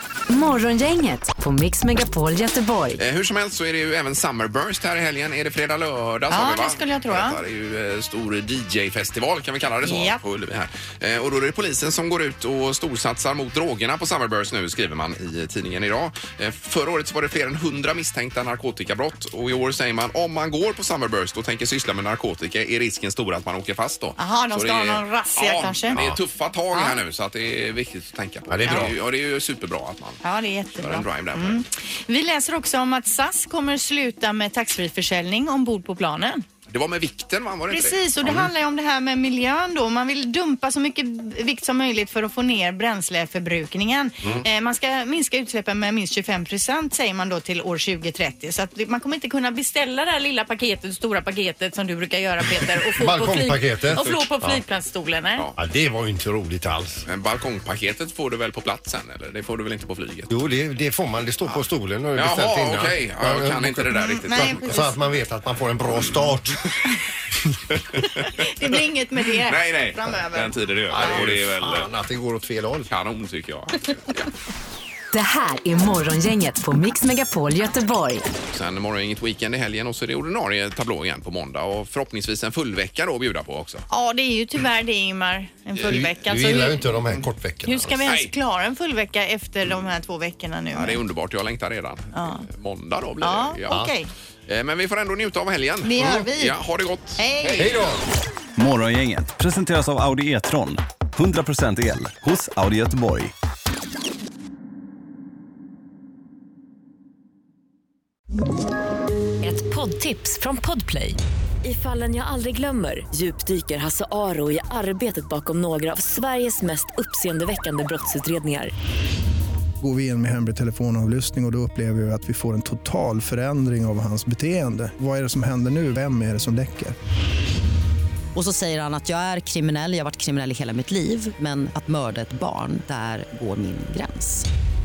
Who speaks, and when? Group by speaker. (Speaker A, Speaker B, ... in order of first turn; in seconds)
Speaker A: 0.3-3.0, 75.1-78.3
Speaker B: 3.0-30.2, 30.8-31.6, 36.7-38.0, 54.0-54.3, 57.1-60.4, 62.1-64.8, 65.9-66.4, 68.0-68.3, 69.5-71.9, 72.9-74.2, 78.5-83.8, 90.7-93.8, 94.5-97.9
Speaker C: 6.3-7.4, 9.8-10.2, 24.2-26.0, 26.7-27.0, 30.2-36.4, 37.7-55.5, 63.9-64.9, 68.2-71.2, 83.9-86.9, 87.7-91.0, 92.1-92.5, 93.2-94.1, 95.8-96.6, 97.2-97.8
Speaker D: 28.5-29.0, 53.0-54.6, 55.6-57.0, 60.3-66.7, 70.9-72.9, 85.8-88.0, 97.6-98.0
Speaker E: 98.6-103.3
Speaker F: 109.4-118.7
Speaker G: 119.8-126.9
Speaker H: 128.3-134.5